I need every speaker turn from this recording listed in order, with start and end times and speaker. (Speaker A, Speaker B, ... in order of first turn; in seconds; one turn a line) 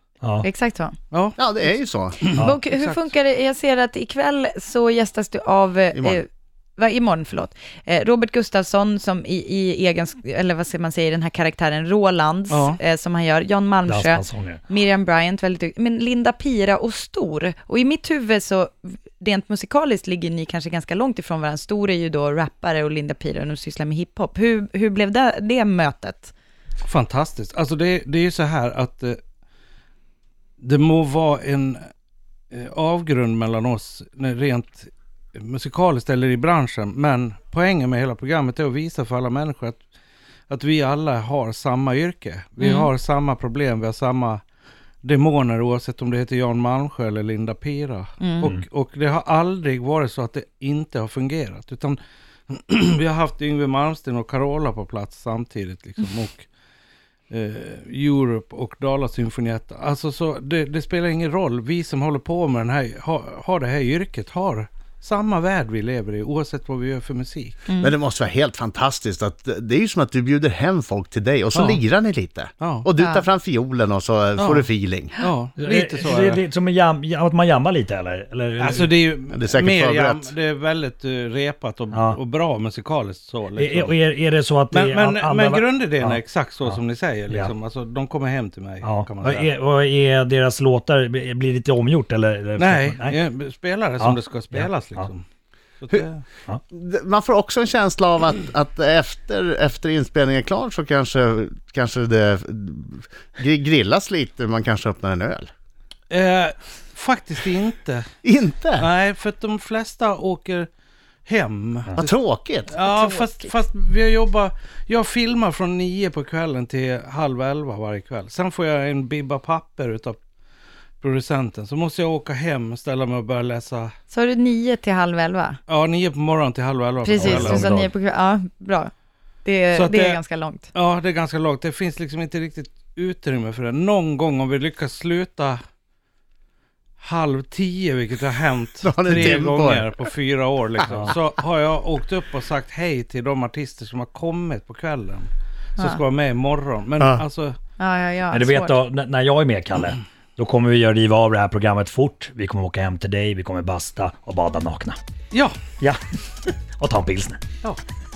Speaker A: 0.2-0.5
Speaker B: 0.4-0.9
Speaker C: 1.1-3.1
Speaker D: 1.4-2.3
Speaker B: 2.4-26.3
Speaker D: 5.9-6.2
Speaker C: 12.5-12.8
Speaker A: 13.9-14.6
Speaker C: 26.9-29.2
Speaker C: 30.6-31.8
Speaker C: 32.5-39.8
Speaker C: 40.5-44.4
Speaker B: 42.6-42.9
Speaker C: 45.0-52.0
Speaker B: 48.2-48.5
Speaker C: 52.5-56.5
Speaker C: 57.3-67.7
Speaker B: 67.7-68.0
Speaker D: 67.8-75.1
Speaker C: 72.6-72.9
Speaker B: 73.0-73.2
Speaker C: 74.4-74.7
Speaker C: 75.2-76.4
Speaker A: 75.6-78.9
Speaker C: 78.6-84.0
Speaker D: 79.3-80.3
Speaker A: 81.9-82.2
Speaker A: 83.6-87.5
Speaker C: 84.7-89.5
Speaker A: 88.8-93.2
Speaker C: 92.6-95.2
Speaker A: 94.0-95.1
Speaker C: 95.8-96.2
Speaker D: 96.7-105.5
Speaker C: 106.1-108.1
Speaker D: 108.2-108.9
Speaker C: 108.8-110.7
Speaker C: 111.3-112.1
Speaker D: 112.0-113.5
Speaker C: 112.7-120.2
Speaker C: 121.0-123.9
Speaker B: 124.1-125.6
Speaker C: 125.7-127.7
Speaker B: 127.0-128.9
Speaker A: 127.2-127.9
Speaker B: 129.4-130.7
Speaker C: 129.7-130.2
Speaker C: 130.7-135.6
Speaker C: 137.0-147.6
Speaker D: 138.8-139.9
Speaker B: 147.8-148.9
Speaker A: 148.3-155.0
Speaker A: 156.8-157.4